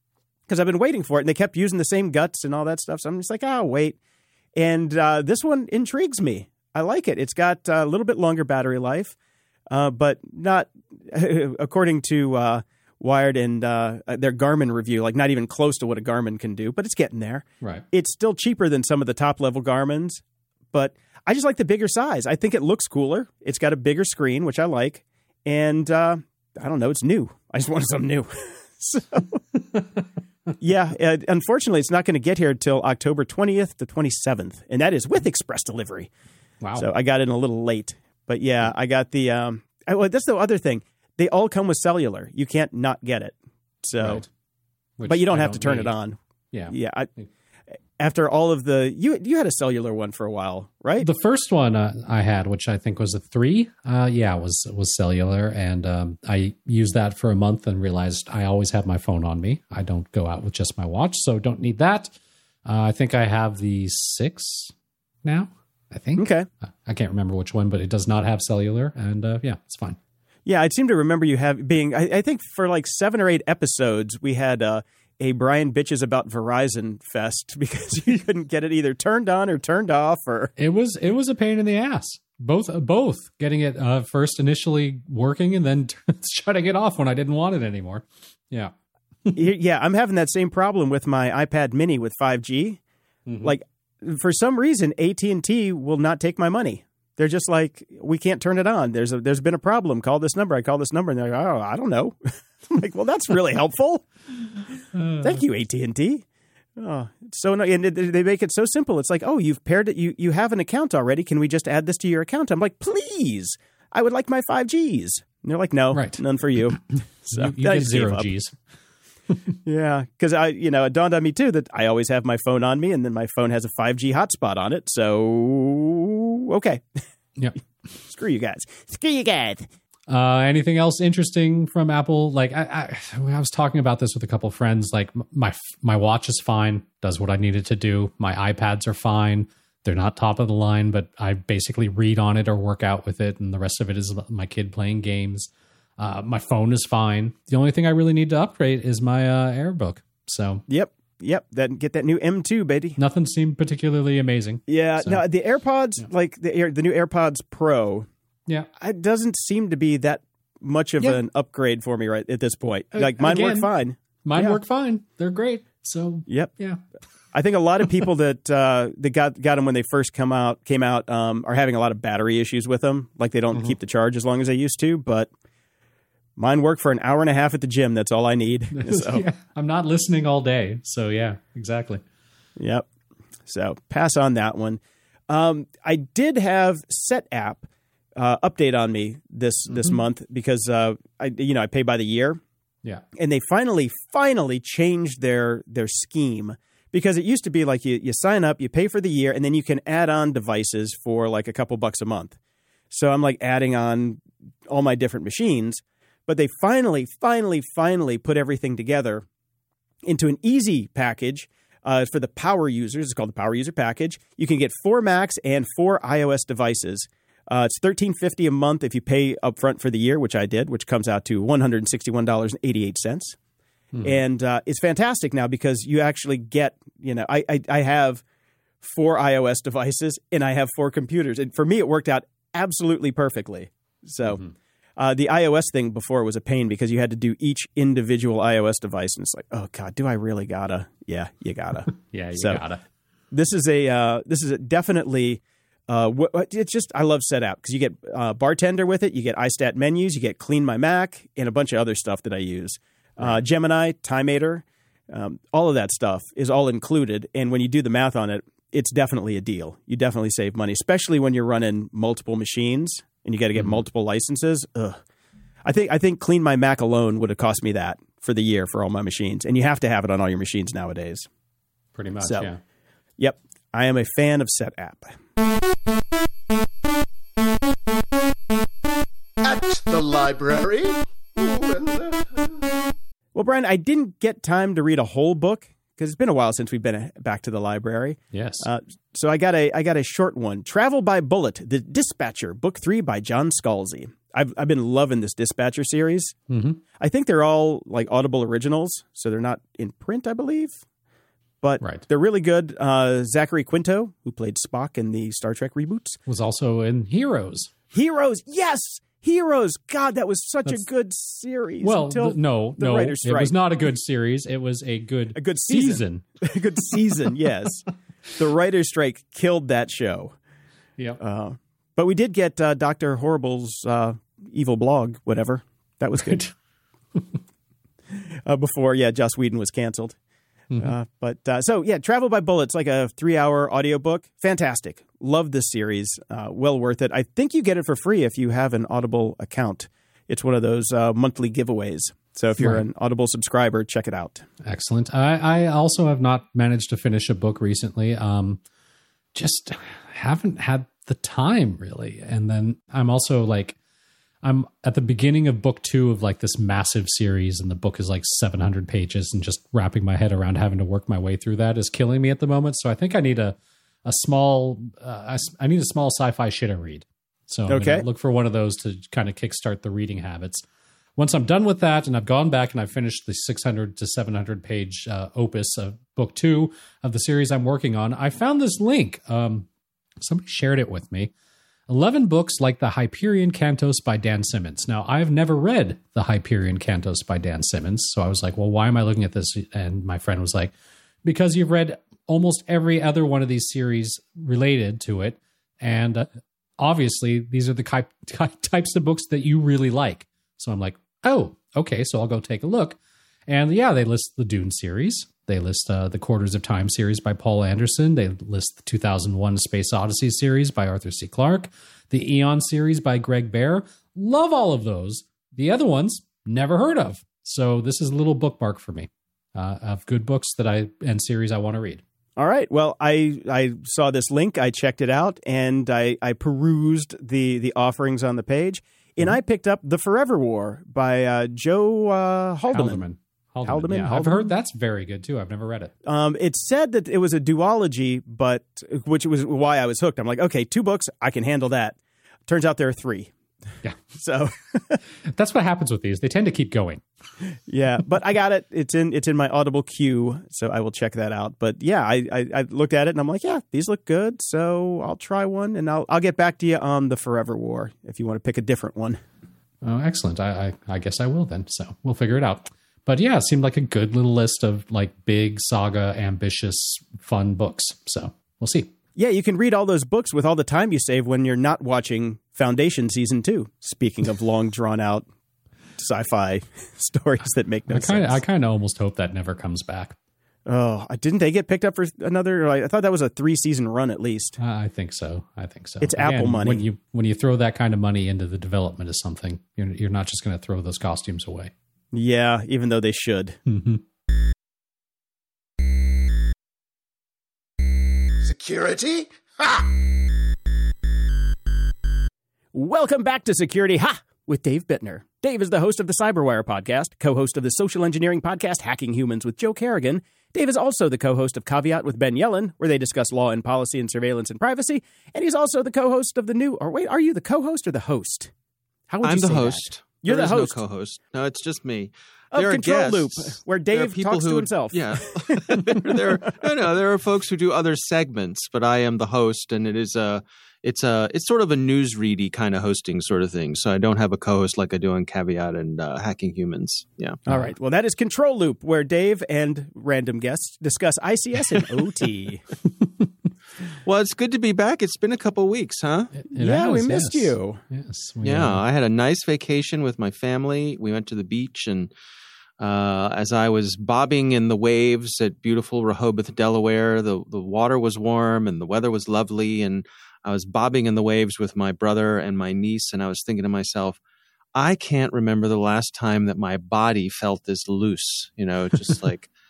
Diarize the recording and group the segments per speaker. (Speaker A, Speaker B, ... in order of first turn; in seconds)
Speaker A: 0.5-4.0, 4.5-9.2, 9.7-29.4, 30.6-36.1, 36.8-44.2, 45.0-46.2, 46.7-47.1, 48.0-51.1, 66.2-66.5, 70.5-80.5, 89.3-92.8, 93.4-104.0, 105.2-106.2, 106.8-118.3, 119.6-127.0, 128.0-129.7, 150.7-153.0, 154.7-158.1, 158.8-164.6, 167.3-175.3, 176.4-179.2, 182.6-182.8, 183.5-192.4, 193.2-202.4, 202.9-209.2, 210.1-223.4, 224.0-228.2, 228.8-234.4, 235.0-242.6, 243.3-265.0, 265.6-271.3, 272.2-272.5, 273.2-275.1, 283.3-296.3, 297.0-300.8, 301.6-306.2, 307.9-313.5, 315.3-320.4, 321.2-326.5, 328.1-330.1, 330.8-344.4, 367.7-368.0, 422.4-433.0, 433.6-434.5, 436.0-441.9, 442.5-443.3, 444.1-445.0, 447.7-459.2, 469.1-475.2, 476.0-478.4, 480.6-484.6, 486.0-486.8, 492.1-493.6, 502.7-518.5, 519.1-520.8, 522.5-526.5, 537.5-542.6, 546.5-547.8
Speaker B: 36.6-36.9, 44.0-44.3, 45.0-45.9, 46.5-47.3, 51.0-62.1, 62.6-64.7, 65.2-70.0, 80.6-88.7, 93.2-93.5, 105.0-105.4, 115.9-116.2, 117.3-118.5, 130.1-150.6, 153.0-155.2, 162.9-163.7, 164.2-166.8, 178.7-182.0, 241.9-242.8, 271.9-272.6, 288.3-288.7, 296.5-296.8, 306.3-307.7, 311.8-316.2, 342.6-342.8, 344.6-348.6, 349.3-353.8, 354.4-370.6, 371.2-379.7, 380.2-381.3, 381.9-390.7, 391.2-396.3, 396.8-422.0, 432.7-435.9, 445.2-447.0, 459.8-468.9, 477.9-480.1, 484.6-491.7, 493.7-494.0, 537.5-537.7, 546.4-548.8
Speaker C: 279.4-282.6, 498.4-499.9
Speaker D: 519.2-537.4, 544.0-546.3, 548.4-552.1, 552.8-564.2, 564.7-569.5